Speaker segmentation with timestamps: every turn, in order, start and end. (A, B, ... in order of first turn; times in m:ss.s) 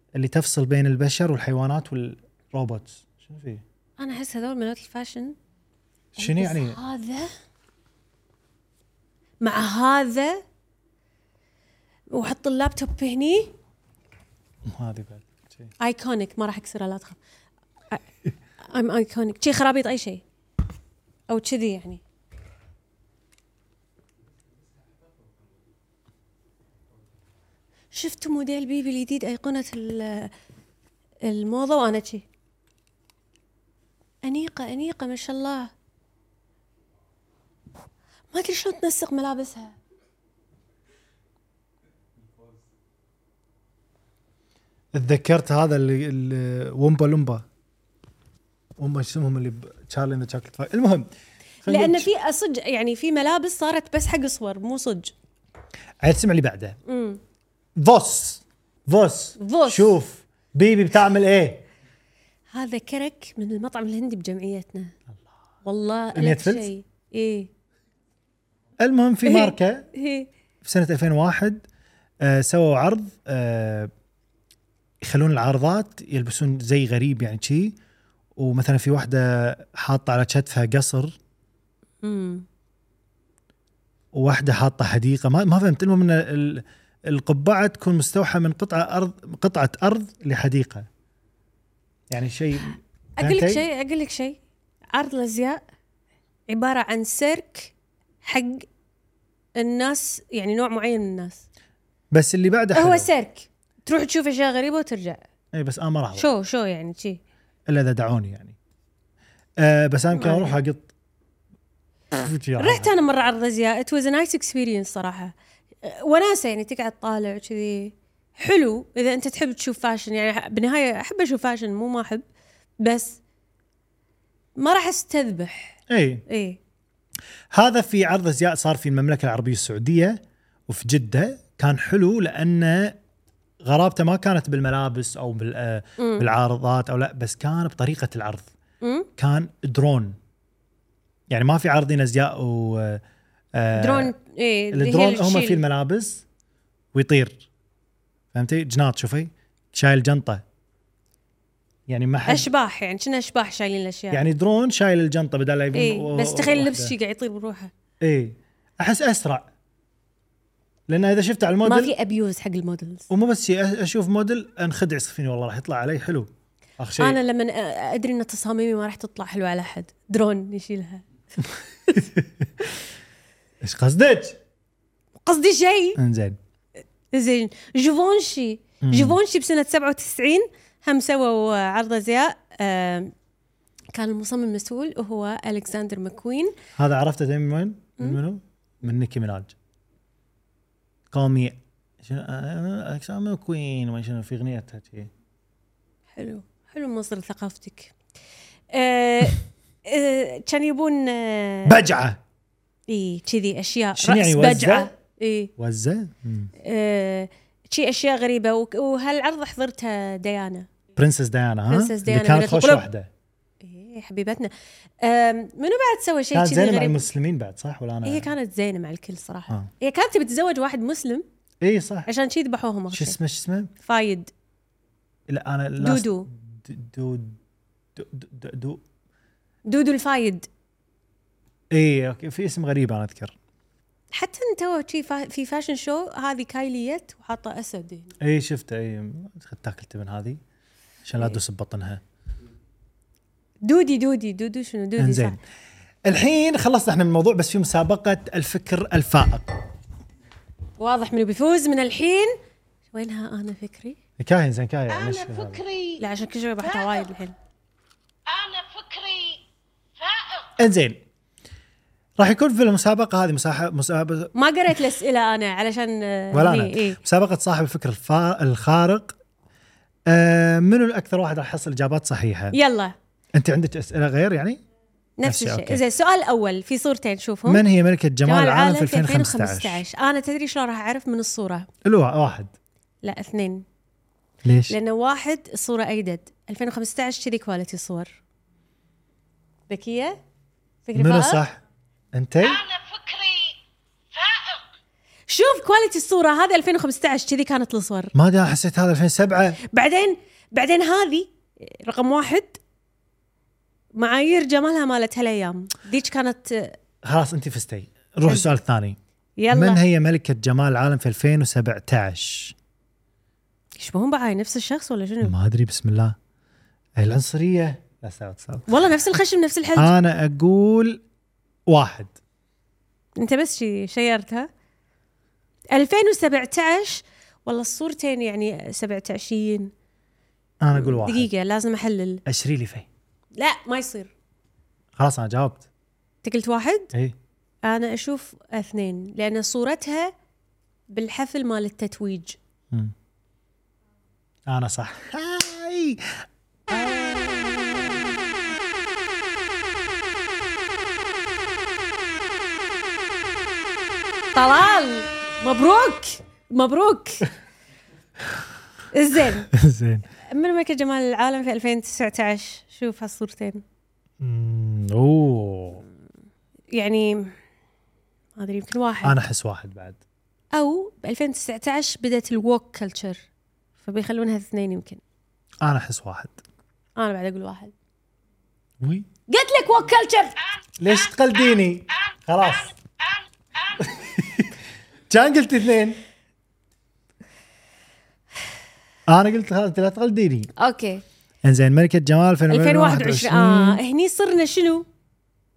0:00.1-0:03.6 A
0:04.0-0:05.4 B
0:06.2-0:06.8 A
0:06.2-0:07.3 B
0:09.4-0:10.4 B
0:12.1-0:13.5 B
0:14.6-0:15.7 A
0:15.8-0:17.2 B
0:18.6-0:20.2 B
0:21.3-0:22.0 B
0:27.9-0:30.3 B
0:31.2-0:32.2 B
0:34.2-0:35.7 B
0:38.3-0:39.8 B
0:44.9-0:47.4 A
0:48.8-0:51.1 A
0:51.6-0:52.1 A
0:51.6-0:55.1 B
0:56.0-0:56.8 A
0:56.9-0:57.2 B
0:57.8-1:01.6 A
0:59.4-1:00.0 B
1:02.5-1:04.9 B
1:05.6-1:07.5 B
1:06.1-1:06.7 A
1:08.8-1:09.9 A
1:09.3-1:10.3 B
1:10.6-1:11.6 A
1:12.2-1:13.9 A
1:15.0-1:17.8 A
1:18.4-1:21.2 A
1:22.0-1:22.4 B
1:24.1-1:30.9 A
1:32.1-1:33.6 A
1:33.2-1:34.4 B
1:34.9-1:35.6 B
1:36.5-1:38.7 B
1:39.6-1:41.4 B
1:42.1-1:43.1 A
1:42.7-1:45.2 B
1:45.5-1:46.3 A
1:46.2-1:47.2 B
1:47.7-1:48.6 A
1:49.6-1:50.9 A
1:50.2-1:50.5 B
1:52.1-1:53.0 A
1:52.6-2:02.2 B
2:02.8-2:03.2 B
2:04.6-2:06.6 B
2:05.9-2:06.2 A
2:07.5-2:13.0 A
2:13.6-2:18.5 A
2:16.0-2:16.2 B
2:18.8-2:19.1 B
2:19.2-2:20.2 A
2:21.3-2:23.0 A
2:23.6-2:24.1 A
2:23.7-2:25.6 B
2:24.7-2:26.2 A
2:26.9-2:27.5 A
2:28.3-2:30.4 A
2:31.9-2:32.5 A
2:32.3-2:34.2 B
2:34.1-2:36.9 A
2:35.7-2:37.7 B
2:38.0-2:39.5 A
2:40.9-2:41.9 A
2:41.6-2:43.1 B
2:43.1-2:46.3 A
2:46.8-2:47.2 A
2:47.0-2:51.0 B
2:51.9-2:52.5 A
2:53.6-2:54.4 A
2:55.2-2:56.0 B
2:56.0-2:56.4 A
2:57.1-3:03.1 B
2:58.8-2:59.2 A
3:04.0-3:06.6 B
3:06.8-3:09.5 A
3:11.1-3:15.1 A
3:16.2-3:17.9 B
3:18.7-3:21.8 B
3:21.7-3:22.2 A
3:22.9-3:25.5 B
3:24.0-3:24.9 A
3:25.6-3:26.5 A
3:26.6-3:30.7 B
3:31.0-3:33.1 A
3:31.7-3:32.8 B
3:33.6-3:37.1 B
3:36.3-3:38.3 A
3:38.0-3:41.2 B
3:41.6-3:42.1 A
3:42.1-3:43.2 B
3:42.9-3:43.7 A
3:43.8-3:44.3 B
3:45.3-3:47.4 A
3:45.8-3:46.3 B
3:48.0-3:48.8 A
3:49.7-3:50.5 B
3:51.7-3:53.4 A
3:54.1-3:58.1 B
3:58.2-4:00.4 A
4:01.0-4:02.0 A
4:03.6-4:05.4 B
4:05.0-4:05.4 A
4:06.0-4:09.6 A
4:10.8-4:12.4 B
4:12.9-4:14.0 B
4:14.2-4:15.6 A
4:14.9-4:16.0 C
4:16.0-4:17.3 B
4:16.6-4:17.1 C
4:18.3-4:19.4 C
4:20.0-4:20.5 C
4:20.6-4:21.0 A
4:22.2-4:24.3 A
4:24.4-4:27.0 B
4:26.3-4:29.2 A
4:30.1-4:32.6 A
4:32.5-4:32.9 B
4:33.3-4:34.6 A
4:35.2-4:37.6 B
4:35.2-4:35.8 A
4:37.4-4:39.8 A
4:38.2-4:41.7 B
4:41.8-4:42.5 A
4:43.0-4:43.6 B
4:44.4-4:44.8 A
4:44.7-4:48.2 B
4:49.7-4:50.2 B
4:50.8-4:51.4 B
4:51.0-4:51.6 A
4:52.1-4:52.6 A
4:52.4-4:53.6 C
4:54.1-4:54.6 C
4:55.3-4:58.1 B
4:58.1-4:59.6 A
4:59.6-5:02.6 B
5:04.0-5:06.8 B
5:07.0-5:09.0 A
5:08.3-5:08.5 B
5:09.4-5:09.8 B
5:09.5-5:12.6 A
5:13.8-5:15.4 B
5:15.2-5:16.2 A
5:17.0-5:18.7 A
5:18.7-5:19.9 B
5:19.8-5:21.0 A
5:21.7-5:22.2 A
5:23.2-5:24.5 B
5:25.7-5:29.7 B
5:30.6-5:31.3 A
5:30.7-5:32.2 B
5:32.3-5:32.9 A
5:33.4-5:34.1 B
5:35.0-5:35.6 A
5:36.2-5:36.9 B
5:37.6-5:40.1 B
5:40.9-5:42.4 B
5:44.5-5:48.5 A
5:54.4-5:57.3 B
5:58.9-5:59.5 B
5:59.5-6:00.1 A
6:00.3-6:03.6 B
6:04.2-6:05.8 A
6:06.7-6:07.4 B
6:08.4-6:09.2 B
6:09.0-6:10.0 A
6:10.5-6:13.2 B
6:13.8-6:15.0 B
6:15.6-6:16.4 A
6:17.0-6:17.7 B
6:18.8-6:19.1 A
6:19.3-6:20.4 B
6:20.8-6:22.7 A
6:23.8-6:24.6 A
6:25.1-6:26.0 A
6:29.1-6:30.5 A
6:30.6-6:31.0 B
6:31.4-6:33.8 A
6:32.5-6:34.8 B